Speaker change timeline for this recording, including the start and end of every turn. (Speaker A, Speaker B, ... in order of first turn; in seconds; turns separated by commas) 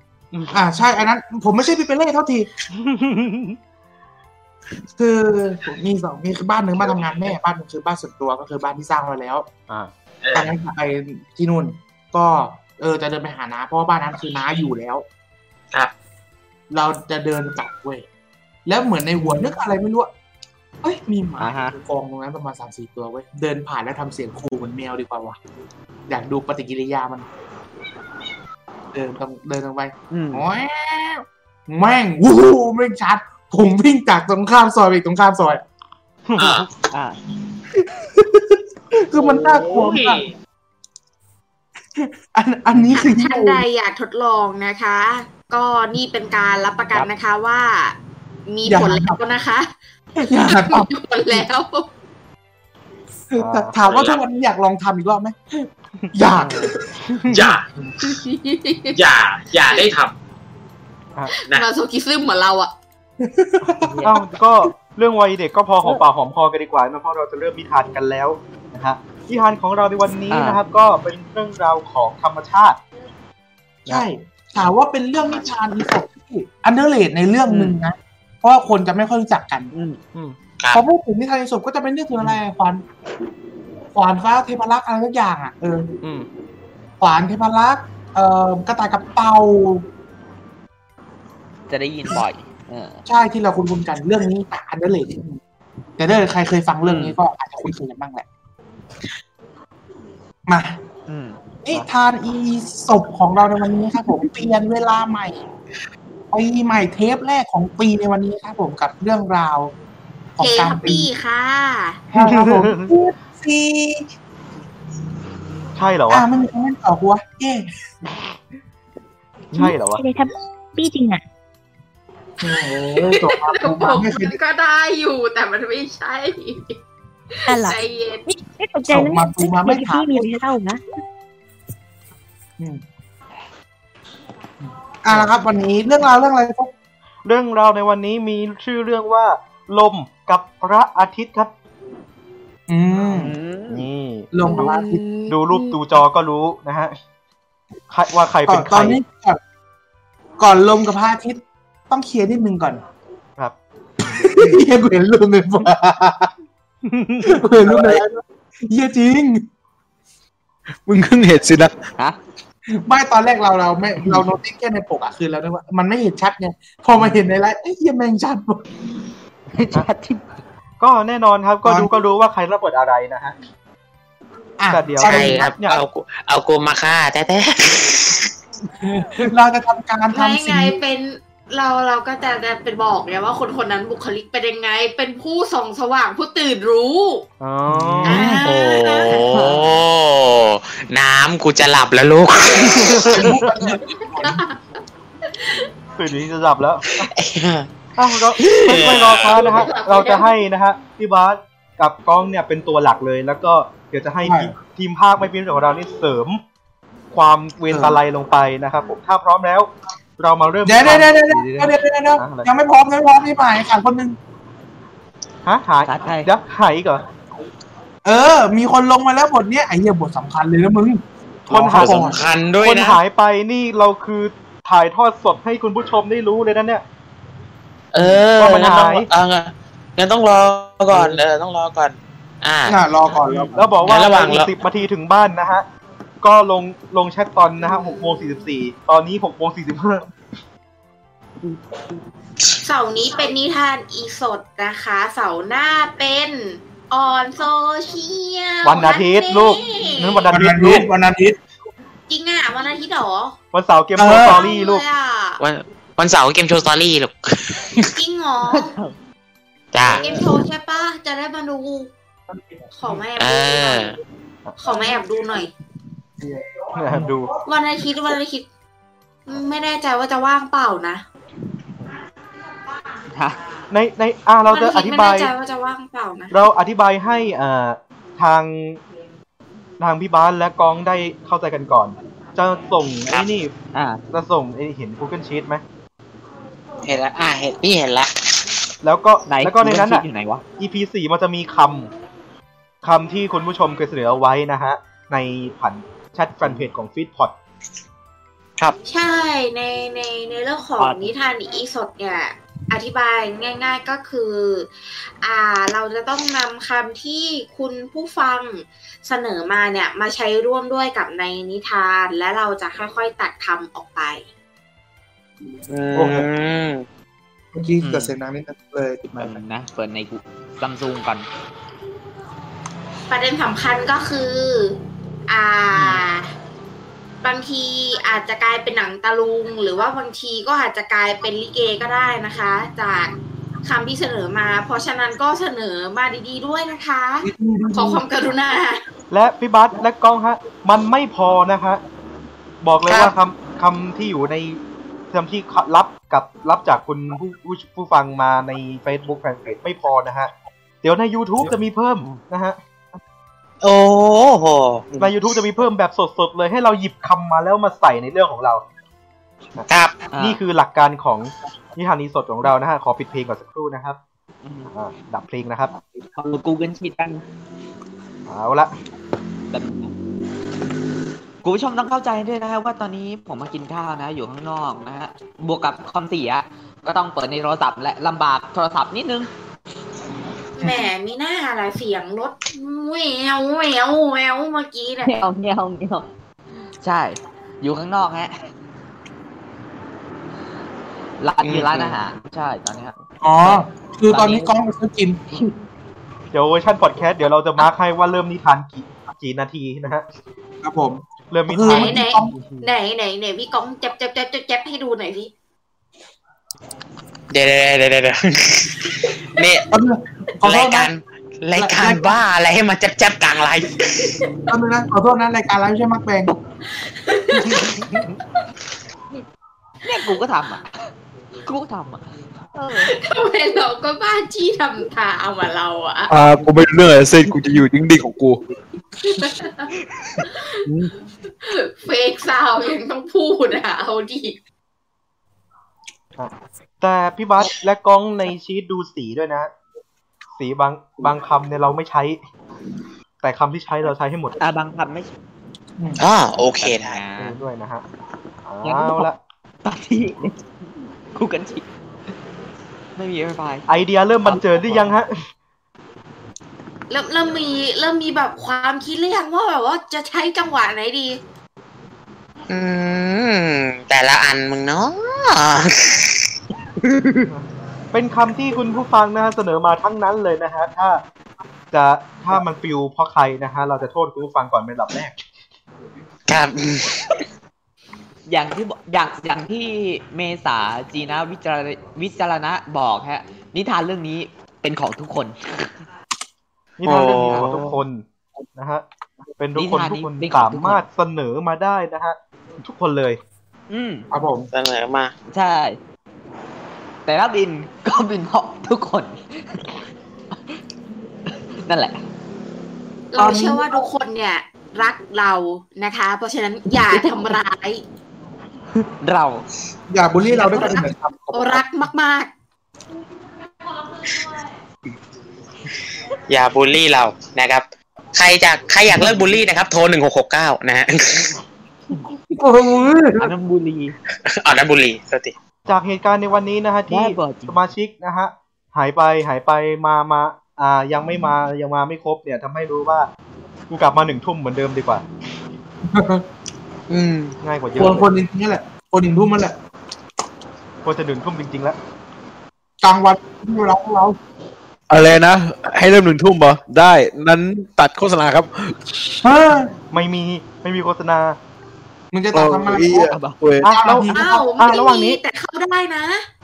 Speaker A: 0.5-2.5, Speaker B: 2.7-3.6, Speaker A: 5.0-9.5, Speaker C: 10.2-10.5, Speaker A: 10.3-15.0, Speaker A: 16.7-18.0, Speaker A: 18.6-20.1, Speaker A: 20.8-25.4, Speaker B: 21.4-21.7, Speaker A: 26.1-27.2, Speaker A: 28.9-35.6, Speaker D: 30.1-30.4, Speaker B: 36.3-36.7, Speaker C: 36.4-36.7, Speaker D: 36.9-37.2, Speaker A: 39.1-40.2, Speaker C: 39.2-40.3, Speaker A: 41.9-43.6, Speaker E: 43.0-49.7, Speaker A: 48.6-49.2, Speaker A: 50.2-51.5, Speaker E: 50.5-51.9, Speaker A: 53.3-56.8, Speaker B: 53.4-53.8, Speaker C: 53.8-54.2, Speaker D: 56.3-56.7, Speaker B: 57.1-57.5, Speaker C: 57.3-57.6, Speaker E: 58.0-59.0, Speaker C: 58.9-60.1, Speaker E: 61.3-62.7, Speaker A: 63.2-64.2, Speaker D: 63.8-64.1, Speaker B: 64.0-72.8, Speaker D: 70.3-70.6, Speaker A: 73.9-79.7, Speaker D: 77.5-77.8, Speaker D: 79.7-80.0, Speaker A: 80.7-82.8, Speaker A: 83.9-85.9, Speaker B: 86.0-86.3, Speaker A: 87.0-89.8, Speaker D: 91.7-93.0, Speaker A: 93.1-95.4, Speaker A: 96.0-98.2, Speaker D: 96.8-97.2, Speaker A: 100.5-100.8, Speaker D: 101.1-101.4, Speaker A: 101.6-105.4, Speaker A: 106.3-109.7, Speaker A: 110.4-111.1, Speaker E: 110.4-112.0, Speaker A: 112.1-114.0, Speaker B: 112.2-112.9, Speaker B: 115.8-116.2, Speaker A: 116.1-117.7, Speaker B: 119.5-120.0, Speaker F: 119.5-121.2, Speaker A: 122.4-124.4, Speaker E: 123.0-126.8, Speaker F: 127.5-130.8, Speaker E: 127.5-128.2, Speaker A: 128.9-130.4, Speaker A: 134.6-136.7, Speaker B: 137.2-141.5, Speaker A: 142.7-143.3, Speaker D: 143.1-143.8, Speaker B: 143.7-144.7, Speaker A: 144.3-145.0, Speaker E: 144.4-145.8, Speaker B: 145.3-147.0, Speaker B: 147.9-149.0, Speaker A: 148.4-149.4, Speaker A: 150.4-152.8, Speaker A: 154.2-156.3, Speaker B: 156.8-157.4, Speaker A: 157.2-159.4, Speaker G: 160.8-161.7, Speaker A: 162.7-168.6, Speaker D: 169.5-170.2, Speaker B: 170.8-173.3, Speaker A: 171.6-171.9, Speaker A: 174.6-175.5, Speaker B: 174.7-175.8, Speaker C: 175.0-178.3, Speaker A: 178.8-180.8, Speaker E: 180.1-187.2, Speaker B: 187.4-188.3, Speaker A: 187.7-188.4, Speaker E: 188.0-189.2, Speaker C: 188.4-193.3, Speaker D: 189.3-189.7, Speaker A: 192.9-194.4, Speaker B: 193.0-193.4, Speaker E: 193.7-194.6, Speaker E: 195.3-195.7, Speaker B: 196.0-197.1, Speaker C: 197.0-197.7, Speaker B: 198.0-206.4, Speaker C: 198.4-199.6, Speaker E: 199.3-200.3, Speaker A: 204.2-204.5, Speaker B: 207.1-212.5, Speaker A: 207.7-208.0, Speaker A: 210.6-214.2, Speaker B: 215.4-217.0, Speaker D: 215.8-216.3, Speaker A: 218.0-222.2, Speaker B: 221.5-222.1, Speaker C: 221.7-223.0, Speaker B: 222.6-226.8, Speaker C: 227.9-232.8, Speaker B: 228.3-229.1, Speaker A: 232.7-233.8, Speaker B: 233.5-235.6, Speaker C: 233.8-234.5, Speaker B: 236.2-240.1, Speaker E: 242.6-250.3, Speaker B: 248.6-250.9, Speaker A: 250.3-251.4, Speaker E: 252.1-253.3, Speaker B: 253.5-254.8, Speaker A: 254.0-254.3, Speaker E: 254.2-255.4, Speaker C: 255.4-257.9, Speaker E: 258.0-258.7, Speaker D: 258.5-258.9, Speaker C: 259.7-260.1, Speaker D: 259.8-260.2, Speaker E: 259.9-261.9, Speaker E: 262.8-263.9, Speaker C: 263.2-264.0, Speaker E: 264.6-265.5, Speaker A: 266.2-267.2, Speaker B: 266.7-267.3, Speaker E: 267.4-268.4, Speaker E: 269.3-271.0, Speaker D: 273.1-273.4, Speaker B: 273.7-275.3, Speaker E: 274.5-276.3, Speaker B: 276.3-278.8, Speaker B: 279.8-283.5, Speaker D: 283.7-284.0, Speaker B: 284.1-285.6, Speaker C: 286.8-288.1, Speaker B: 288.8-290.0, Speaker D: 289.3-290.4, Speaker B: 290.6-291.9, Speaker B: 292.8-297.3, Speaker D: 296.4-296.7, Speaker E: 298.9-314.2, Speaker D: 300.8-301.1, Speaker C: 315.7-316.8, Speaker A: 315.9-316.2, Speaker A: 317.5-319.4, Speaker D: 317.8-318.1, Speaker D: 319.2-321.2, Speaker E: 323.1-326.3, Speaker D: 325.7-326.0, Speaker E: 327.2-333.1, Speaker E: 333.6-338.8, Speaker A: 337.2-338.0, Speaker B: 339.1-341.8, Speaker B: 342.6-352.6, Speaker C: 342.9-343.1, Speaker C: 353.6-355.1, Speaker B: 355.0-358.6, Speaker C: 359.7-360.0, Speaker D: 360.1-360.4, Speaker B: 360.2-364.0, Speaker D: 364.4-364.7, Speaker B: 364.7-365.7, Speaker D: 366.1-367.2, Speaker B: 368.3-368.7, Speaker D: 369.5-369.9, Speaker D: 371.4-379.3, Speaker E: 380.6-385.2, Speaker D: 385.0-386.1, Speaker D: 386.8-388.3, Speaker D: 391.2-394.5, Speaker C: 391.4-391.9, Speaker A: 393.2-395.4, Speaker B: 396.3-400.1, Speaker A: 400.6-402.4, Speaker B: 401.3-402.6, Speaker E: 401.6-405.3, Speaker C: 407.3-409.7, Speaker A: 409.7-410.9, Speaker C: 410.4-414.1, Speaker A: 411.6-412.2, Speaker A: 414.5-416.3, Speaker E: 416.8-417.8, Speaker D: 417.4-418.1, Speaker D: 419.8-420.7, Speaker D: 421.4-422.9, Speaker E: 422.8-426.1, Speaker G: 426.1-428.4, Speaker E: 429.0-429.7, Speaker E: 431.4-434.4, Speaker B: 436.2-439.5, Speaker B: 440.4-442.2, Speaker B: 443.2-444.4, Speaker D: 444.4-445.1, Speaker C: 446.0-447.0, Speaker D: 446.6-447.4, Speaker B: 447.2-447.8, Speaker B: 448.4-449.2, Speaker D: 448.6-449.1, Speaker D: 449.6-450.4, Speaker D: 451.1-451.6, Speaker D: 452.9-453.6, Speaker B: 453.7-455.1, Speaker D: 454.2-454.9, Speaker E: 456.9-461.2, Speaker C: 462.5-466.2, Speaker C: 466.9-467.2, Speaker B: 467.3-471.0, Speaker B: 471.7-475.2, Speaker C: 476.3-477.0, Speaker D: 478.3-485.7, Speaker B: 486.8-488.0, Speaker C: 486.8-487.7, Speaker B: 488.6-488.8, Speaker B: 489.4-493.2, Speaker D: 489.6-490.8, Speaker D: 493.7-494.1, Speaker A: 494.1-494.5, Speaker C: 494.5-495.1, Speaker D: 495.3-495.8, Speaker D: 497.1-499.8, Speaker D: 501.6-502.0, Speaker E: 503.1-507.8, Speaker A: 503.1-503.8, Speaker D: 506.7-507.4, Speaker D: 508.8-509.4, Speaker A: 509.9-511.6, Speaker E: 510.4-512.3, Speaker C: 516.3-521.4, Speaker A: 522.3-523.3, Speaker D: 523.2-524.0, Speaker C: 524.3-525.3, Speaker B: 525.7-533.1, Speaker D: 526.9-527.6, Speaker B: 533.7-535.0, Speaker A: 535.8-536.2, Speaker C: 536.9-537.3, Speaker B: 537.4-538.1, Speaker A: 537.8-539.5, Speaker B: 540.8-541.8, Speaker A: 542.8-544.2, Speaker G: 544.9-548.9, Speaker A: 549.2-549.7, Speaker B: 549.9-551.4, Speaker A: 552.1-553.1, Speaker G: 552.3-553.7, Speaker D: 553.1-553.4, Speaker B: 553.6-555.2, Speaker A: 553.6-554.6, Speaker E: 554.1-556.2